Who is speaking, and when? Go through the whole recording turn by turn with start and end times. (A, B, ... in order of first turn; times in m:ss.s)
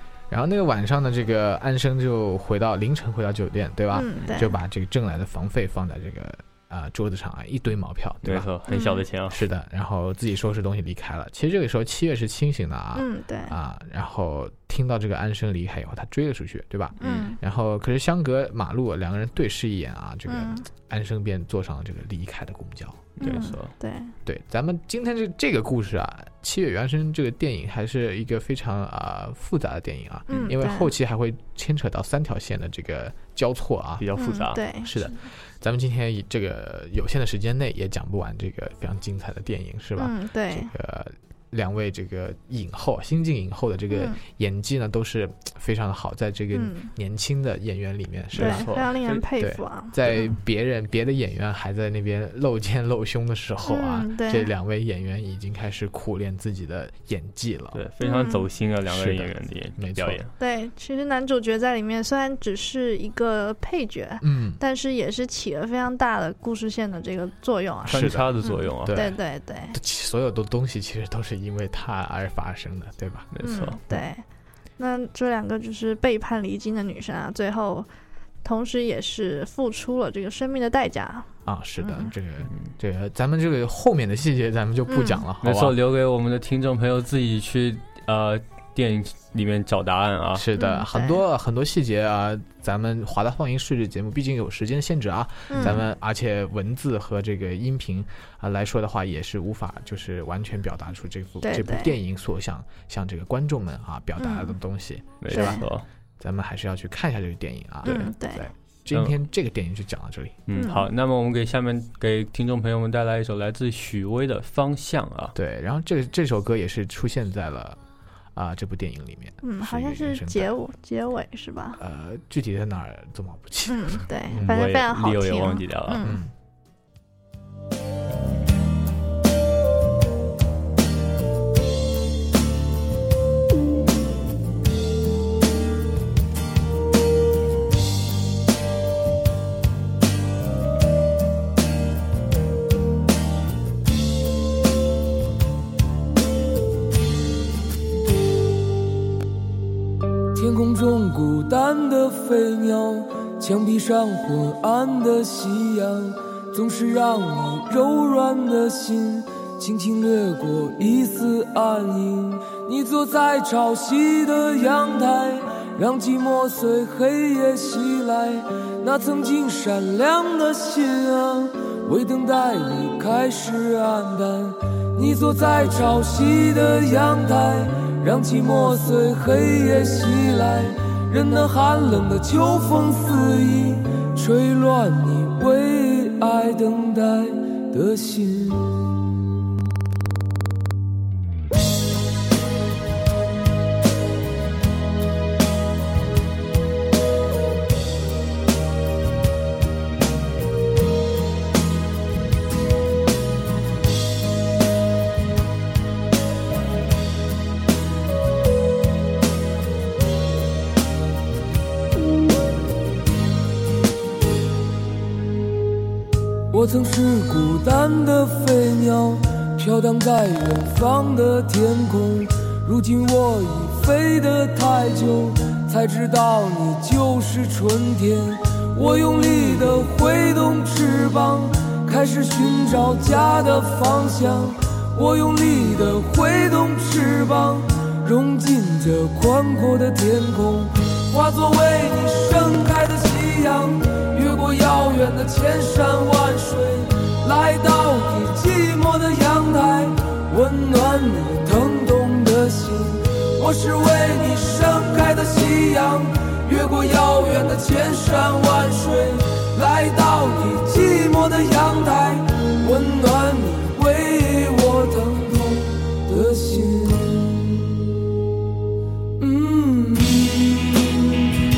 0:00.3-0:08.5 A
0:03.9-0:04.6 B
0:08.2-0:09.4 C
0:08.7-0:09.0 B
0:09.3-0:23.4 A
0:13.0-0:13.6 B
0:17.0-0:17.3 C
0:17.0-0:17.4 B
0:20.3-0:20.6 B
0:23.2-0:23.7 C
0:23.2-0:24.1 B
0:24.2-0:34.1 A
0:30.3-0:30.9 B
0:34.0-0:34.6 C
0:34.2-0:34.9 B
0:34.8-0:48.7 A
0:40.0-0:40.7 B
0:43.9-0:44.2 B
0:46.5-0:46.9 B
0:48.3-0:49.2 C
0:48.3-0:50.3 B
0:49.4-0:57.8 A
0:53.6-0:54.5 B
0:57.7-1:00.3 C
0:58.0-0:58.5 B
0:58.8-1:00.2 A
1:00.4-1:09.8 B
1:04.2-1:04.6 A
1:07.8-1:09.2 A
1:07.9-1:09.0 C
1:09.7-1:13.3 A
1:13.3-1:13.8 C
1:13.4-1:14.2 B
1:14.8-1:17.9 B
1:18.4-1:21.3 B
1:21.4-1:25.8 A
1:21.8-1:22.1 B
1:24.9-1:25.2 B
1:25.4-1:30.5 C
1:30.3-1:45.6 A
1:30.6-1:31.2 B
1:35.5-1:35.8 B
1:41.4-1:42.0 B
1:44.2-1:44.6 B
1:45.2-1:45.8 C
1:45.3-1:45.6 B
1:46.2-1:50.4 A
1:47.8-1:48.5 B
1:50.5-1:55.3 C
1:50.5-1:50.9 B
1:55.3-1:57.8 A
1:58.3-2:00.6 A
1:59.4-2:01.8 B
2:01.8-2:04.6 A
2:03.7-2:06.2 B
2:04.4-2:06.1 C
2:06.0-2:06.3 A
2:30.3-3:08.9 D
3:36.5-4:27.7 D
4:29.2-4:31.3 D